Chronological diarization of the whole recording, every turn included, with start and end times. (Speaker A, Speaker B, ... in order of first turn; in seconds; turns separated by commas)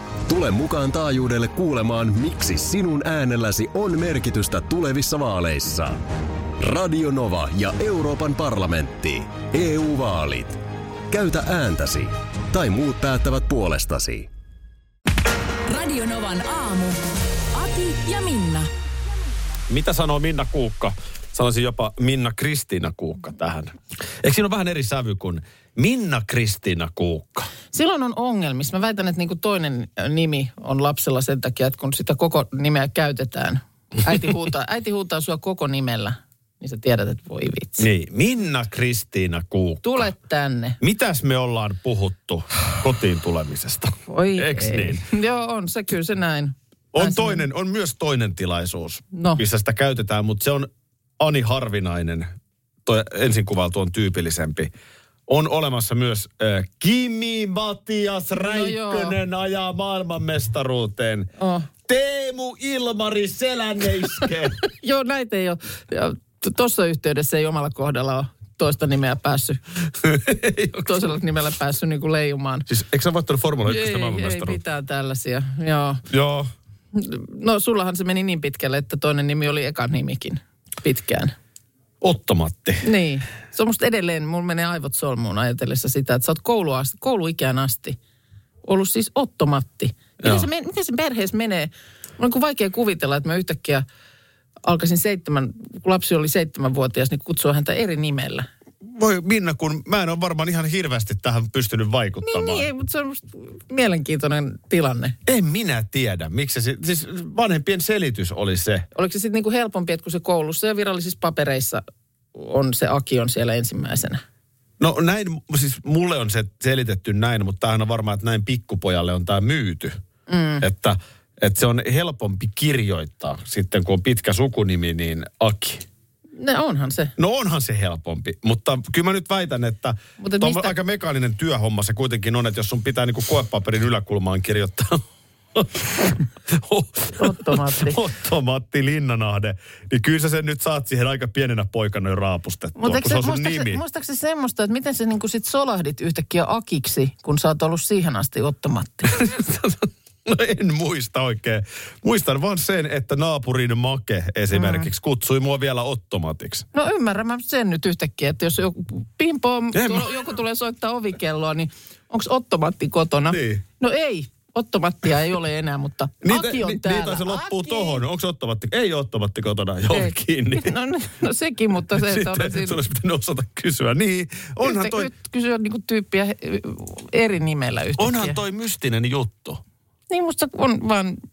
Speaker A: 0.3-6.0, Speaker A: 6.6-10.6, Speaker A: 11.1-14.3, Speaker B: 15.7-17.0, Speaker B: 17.5-18.7, Speaker C: 19.7-27.5, Speaker D: 27.7-37.9, Speaker C: 37.8-40.1, Speaker D: 39.8-40.8, Speaker C: 40.8-45.0, Speaker D: 44.1-47.4, Speaker C: 46.9-52.3, Speaker D: 49.1-49.4, Speaker C: 52.9-54.7, Speaker C: 55.3-61.3, Speaker D: 58.4-59.2, Speaker D: 61.4-61.7, Speaker C: 61.9-64.6, Speaker D: 64.6-69.6, Speaker C: 70.0-71.2, Speaker D: 70.8-72.7, Speaker C: 72.7-74.6, Speaker D: 73.7-76.0, Speaker C: 76.1-76.5, Speaker D: 76.9-81.3, Speaker C: 82.0-82.9, Speaker D: 82.8-88.0, Speaker D: 88.6-93.8, Speaker C: 90.2-90.5, Speaker D: 94.6-98.5, Speaker C: 98.8-102.7, Speaker D: 102.2-105.2, Speaker C: 105.2-108.9, Speaker D: 108.9-111.8, Speaker D: 112.3-114.2, Speaker C: 114.8-120.0, Speaker D: 120.3-120.7, Speaker C: 120.6-125.8, Speaker D: 126.4-127.1, Speaker C: 127.2-143.8, Speaker D: 130.2-130.7, Speaker D: 137.2-138.0, Speaker D: 142.8-149.2, Speaker C: 149.0-156.7, Speaker D: 154.5-154.9, Speaker D: 156.7-168.0, Speaker C: 159.7-160.1, Speaker C: 163.3-163.6, Speaker C: 166.2-170.7, Speaker D: 169.9-172.8, Speaker C: 171.9-175.1, Speaker D: 174.6-178.4, Speaker C: 178.0-179.6, Speaker D: 180.1-181.2